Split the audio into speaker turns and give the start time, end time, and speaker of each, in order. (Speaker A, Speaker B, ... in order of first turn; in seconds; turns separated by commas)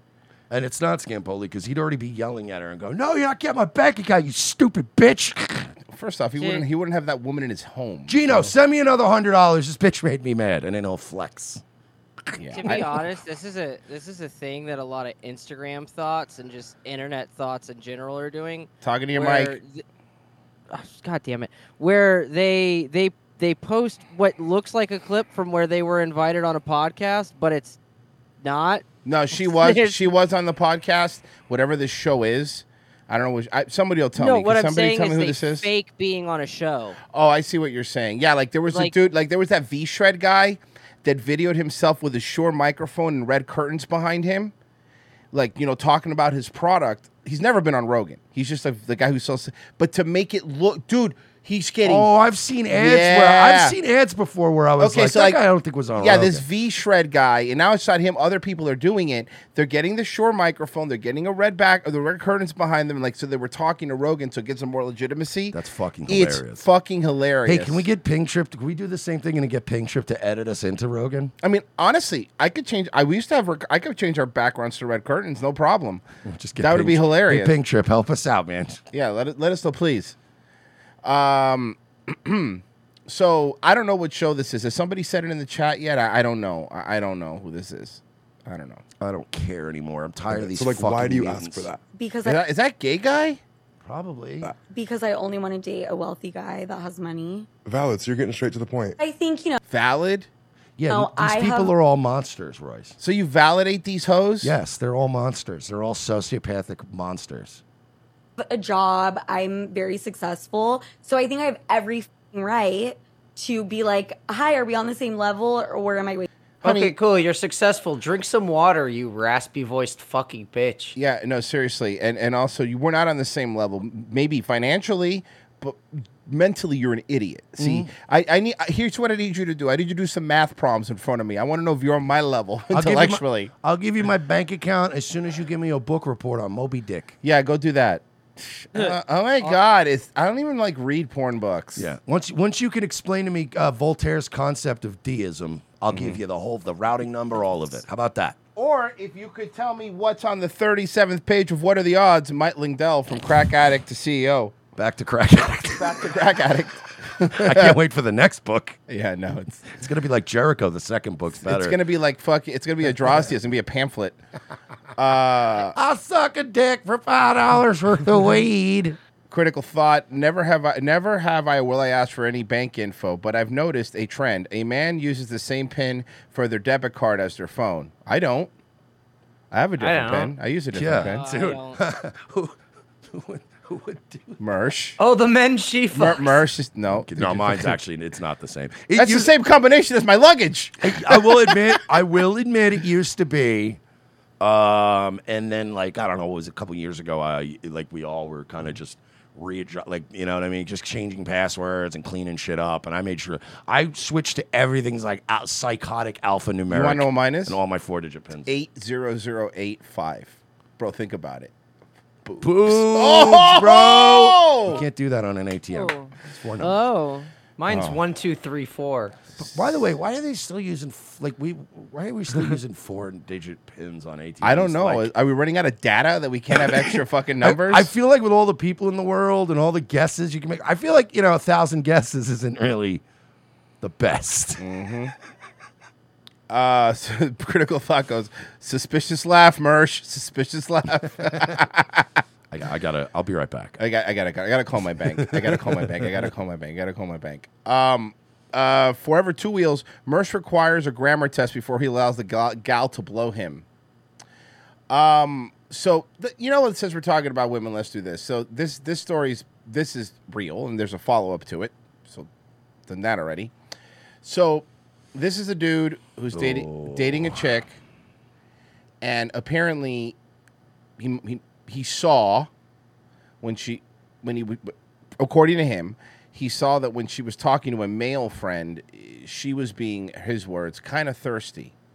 Speaker A: 0.5-5.7, Speaker B: 5.9-8.5, Speaker C: 6.3-6.7, Speaker A: 8.1-11.6, Speaker A: 12.3-12.8, Speaker B: 12.4-13.1, Speaker C: 12.5-19.8, Speaker B: 18.8-19.6, Speaker C: 20.7-27.8, Speaker C: 28.4-30.1, Speaker B: 29.0-35.7, Speaker C: 34.1-37.0, Speaker B: 37.1-44.5, Speaker B: 45.3-52.1, Speaker A: 51.8-56.4, Speaker B: 52.7-53.7, Speaker B: 54.8-55.4, Speaker B: 56.0-67.8, Speaker A: 65.5-66.6, Speaker A: 67.5-71.3, Speaker B: 71.4-76.0, Speaker A: 76.2-78.8, Speaker B: 76.6-77.5, Speaker B: 78.9-80.2, Speaker B: 81.0-88.8, Speaker A: 89.0-91.7, Speaker D: 90.3-91.8, Speaker E: 91.9-92.4, Speaker B: 92.2-93.4, Speaker A: 93.8-94.5, Speaker E: 94.7-97.5, Speaker D: 97.7-99.0, Speaker E: 99.0-99.6, Speaker B: 99.7-100.3, Speaker A: 100.8-103.0, Speaker E: 100.9-101.7, Speaker B: 103.0-104.5, Speaker A: 104.4-107.6, Speaker E: 108.4-116.3, Speaker B: 116.6-116.9, Speaker F: 116.6-121.0, Speaker B: 121.0-133.5, Speaker A: 127.6-127.9, Speaker A: 132.7-137.2, Speaker B: 137.2-141.9, Speaker C: 138.7-139.6, Speaker A: 141.8-148.4, Speaker B: 145.9-146.2, Speaker B: 148.6-154.6, Speaker A: 154.8-156.0, Speaker B: 155.7-157.8, Speaker A: 157.3-158.8, Speaker B: 158.9-159.7, Speaker A: 159.7-161.8, Speaker B: 161.4-164.2, Speaker B: 165.0-165.7, Speaker A: 165.7-169.0, Speaker B: 169.3-178.5, Speaker B: 179.5-181.2, Speaker F: 179.8-180.3, Speaker A: 180.7-184.4, Speaker C: 181.0-181.8, Speaker B: 184.4-185.0, Speaker F: 185.0-186.4, Speaker B: 185.9-187.8, Speaker A: 186.9-189.3, Speaker B: 188.9-191.6, Speaker A: 190.8-193.8, Speaker A: 194.4-208.5, Speaker B: 206.7-207.6, Speaker B: 208.4-211.5, Speaker B: 212.2-214.8, Speaker A: 212.4-216.8, Speaker C: 215.7-216.1, Speaker C: 216.8-217.3, Speaker F: 217.6-219.2, Speaker B: 217.7-218.0, Speaker A: 219.4-225.1, Speaker B: 224.4-227.9, Speaker A: 226.5-233.0, Speaker A: 233.8-234.6, Speaker B: 234.6-235.1, Speaker B: 236.5-242.2, Speaker A: 242.5-243.8, Speaker B: 243.8-253.6, Speaker A: 245.0-246.3, Speaker B: 254.9-262.3, Speaker B: 262.9-263.5, Speaker B: 264.2-267.8, Speaker A: 266.3-267.5, Speaker B: 269.0-270.1, Speaker B: 271.0-272.5, Speaker B: 273.4-281.7